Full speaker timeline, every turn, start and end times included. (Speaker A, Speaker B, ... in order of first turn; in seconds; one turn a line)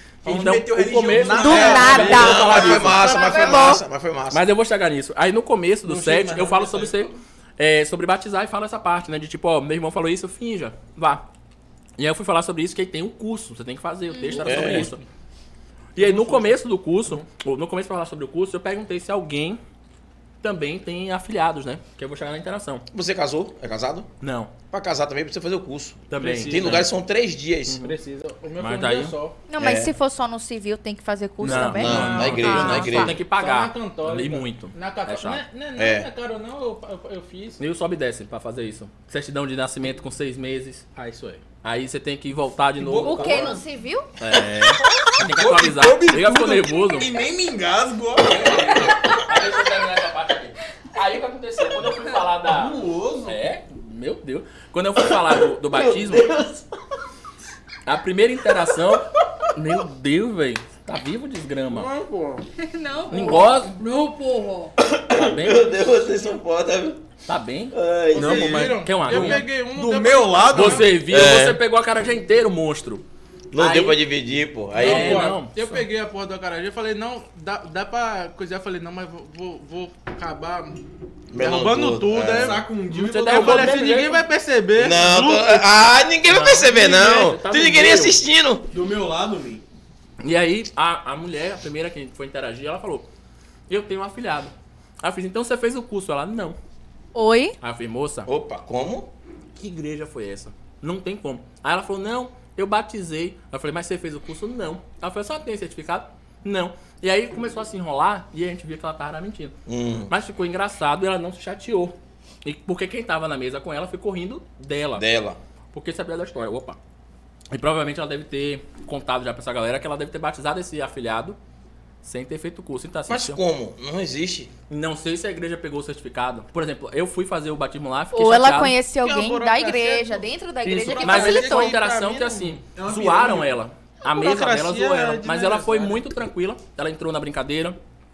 Speaker A: 0.2-2.7
Speaker B: 0.2-3.3
Speaker C: 1.1-3.7
Speaker D: 1.4-3.8
Speaker E: 2.0-4.4
Speaker B: 4.3-11.2
Speaker A: 5.8-7.1
Speaker B: 12.0-15.0
Speaker D: 14.1-14.5
Speaker E: 14.4-14.9
Speaker C: 14.6-15.0
Speaker B: 16.0-19.6
Speaker C: 16.0-16.6
Speaker B: 20.4-22.9
Speaker E: 22.9-24.1
Speaker B: 24.2-24.5
Speaker E: 24.7-27.8
Speaker B: 26.1-26.9
Speaker C: 26.2-26.9
Speaker B: 27.7-28.0
Speaker C: 27.8-29.4
Speaker B: 28.6-29.2
Speaker D: 29.5-33.1
Speaker E: 29.6-29.9
Speaker B: 31.4-35.4
Speaker E: 31.4-33.2
Speaker A: 31.7-32.1
Speaker C: 32.6-37.6
Speaker E: 35.8-36.1
Speaker B: 37.6-40.9
Speaker C: 41.0-41.4
Speaker B: 41.6-43.6
Speaker A: 42.8-43.6
Speaker D: 43.0-44.1
Speaker B: 44.2-47.1
Speaker A: 44.7-49.2
Speaker B: 48.2-56.4
Speaker A: 52.5-53.5
Speaker E: 55.7-56.6
Speaker B: 57.9-61.9
Speaker C: 61.7-62.5
Speaker D: 62.6-64.7
Speaker B: 63.1-63.8
Speaker E: 64.8-67.0
Speaker B: 65.1-65.8
Speaker B: 67.3-67.8
Speaker E: 67.7-68.8
Speaker C: 68.1-71.0
Speaker A: 68.1-71.0
Speaker B: 68.8-69.5
Speaker B: 70.5-73.0
Speaker E: 71.1-71.6
Speaker E: 73.5-75.4
Speaker B: 73.5-74.0
Speaker B: 74.8-75.9
Speaker C: 74.8-82.6
Speaker E: 81.3-82.6
Speaker A: 82.3-83.8
Speaker B: 82.9-84.2
Speaker C: 83.2-85.7
Speaker E: 84.8-88.7
Speaker B: 86.3-88.2
Speaker A: 88.7-89.6
Speaker B: 90.2-93.1
Speaker B: 93.7-96.6
Speaker D: 97.2-97.6
Speaker B: 97.6-98.3
Speaker E: 98.3-99.1
Speaker B: 99.6-109.5
Speaker E: 109.7-110.1
Speaker B: 110.1-115.1
Speaker E: 115.0-115.4
Speaker B: 115.7-116.8
Speaker B: 117.5-121.4
Speaker B: 122.0-123.4
Speaker E: 123.1-124.5
Speaker B: 124.7-128.8
Speaker D: 128.1-131.7
Speaker C: 129.0-132.7
Speaker B: 130.7-137.8
Speaker A: 132.8-133.6
Speaker C: 134.1-136.1